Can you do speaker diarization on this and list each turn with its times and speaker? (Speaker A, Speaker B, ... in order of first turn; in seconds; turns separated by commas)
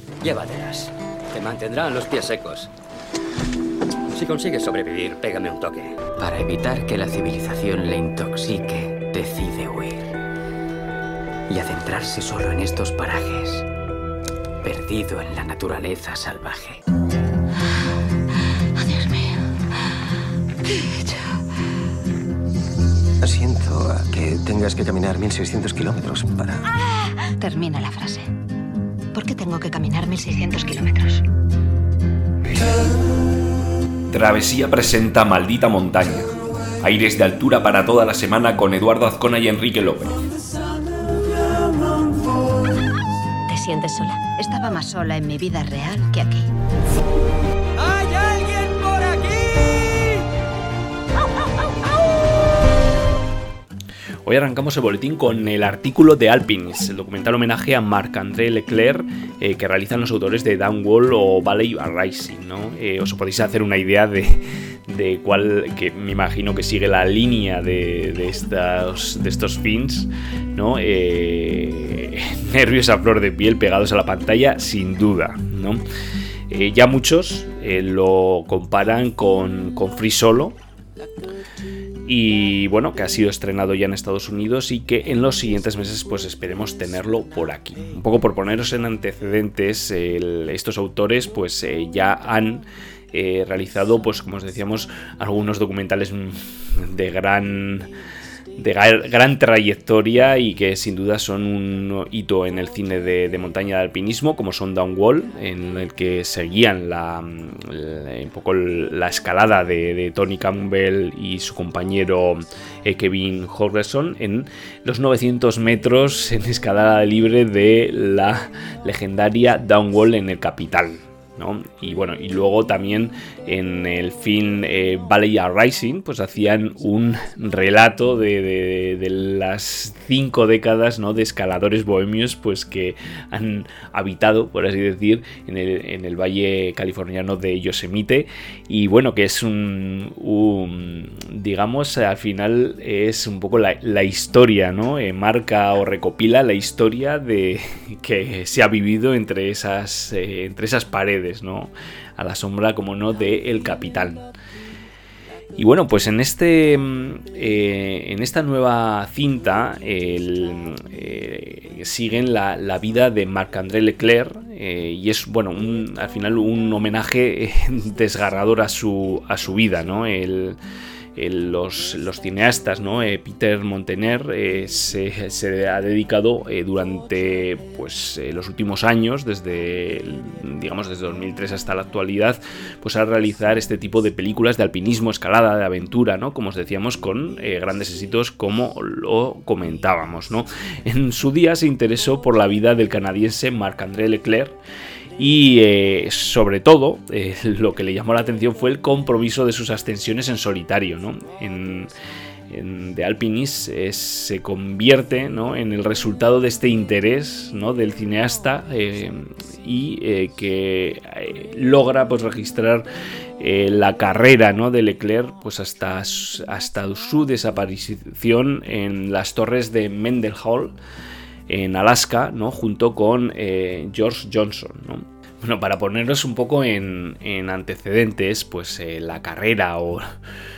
Speaker A: 0.2-2.7, Speaker A: 4.1-6.1, Speaker B: 6.1-10.1, Speaker B: 11.5-13.7, Speaker B: 14.6-16.8, Speaker C: 18.8-19.8, Speaker C: 20.6-21.4, Speaker D: 23.2-26.6, Speaker C: 26.8-28.3, Speaker C: 29.1-31.2, Speaker E: 34.1-36.3, Speaker E: 36.8-40.2, Speaker C: 43.5-46.5, Speaker A: 48.0-49.1, Speaker E: 54.2-75.8, Speaker E: 76.5-80.6, Speaker E: 82.0-97.9, Speaker E: 98.6-154.3, Speaker E: 155.6-170.6, Speaker E: 171.2-194.6, Speaker E: 195.2-201.9, Speaker E: 202.5-212.9, Speaker E: 213.4-220.8, Speaker E: 221.5-230.0